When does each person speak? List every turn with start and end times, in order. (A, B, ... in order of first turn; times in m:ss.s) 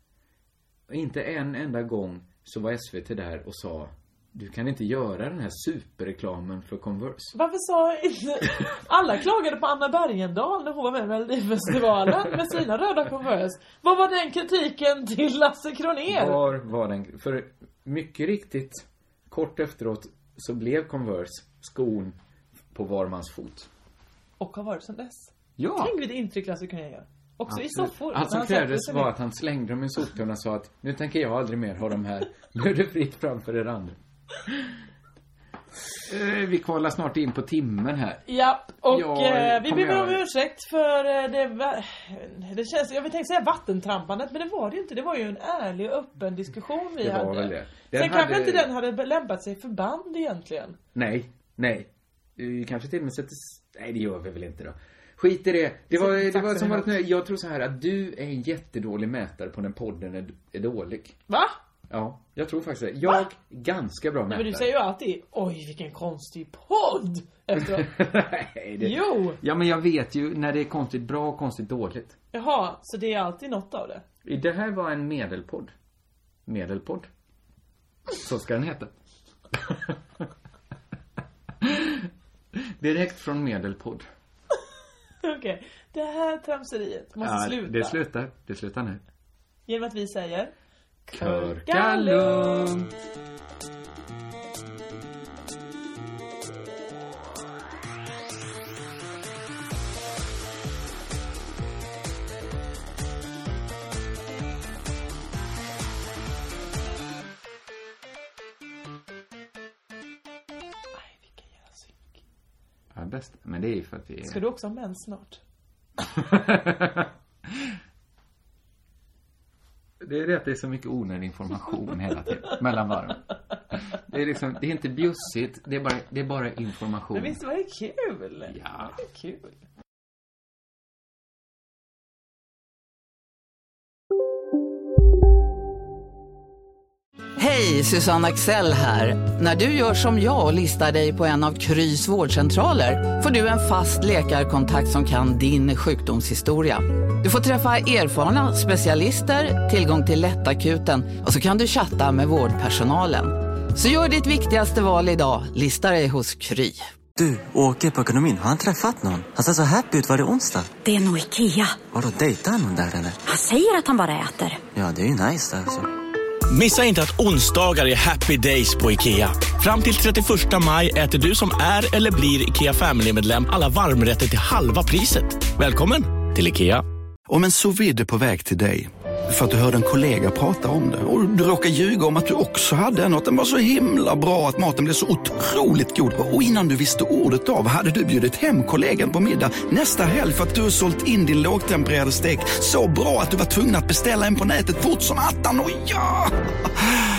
0:00.9-0:07.3 A
0:07.3-0:16.4 B
0:16.1-0:22.2 A
0:22.7-0:23.7 A
0:24.4-0:29.1 B
0:25.6-0:26.0 A
0:27.5-0:34.7 A
0:36.0-0:38.2 A
0:38.3-0:50.8 B
0:38.9-0:40.2 A
0:47.0-0:48.7 A
0:51.0-1:01.2 A
0:55.9-0:56.9 B
1:01.3-1:01.6 B
1:01.9-1:04.7 A
1:04.3-1:07.9 B
1:07.6-1:12.2 A
1:08.8-1:09.4 B
1:12.3-1:14.0 B
1:14.2-1:15.7 A
1:16.5-1:17.1 A
1:18.2-1:18.9 A
1:19.5-1:20.2 A
1:21.6-1:24.1 A
1:25.2-1:28.0 B
1:27.2-1:29.0 A
1:29.7-1:30.5 B
1:31.1-1:32.7 B
1:31.1-1:32.9 A
1:50.9-1:52.2 B
1:52.9-1:54.4 A
1:54.2-1:55.4 B
1:56.0-1:57.7 A
2:00.0-2:07.4 A
2:07.1-2:09.6 B
2:08.5-2:09.0 A
2:17.4-2:36.9 C
2:37.2-2:40.8 D
2:40.9-2:41.7 E
2:41.9-2:43.2 D
2:43.3-2:44.6 E
2:44.7-2:45.9 D
2:46.5-2:56.8 F
2:57.3-3:16.3 G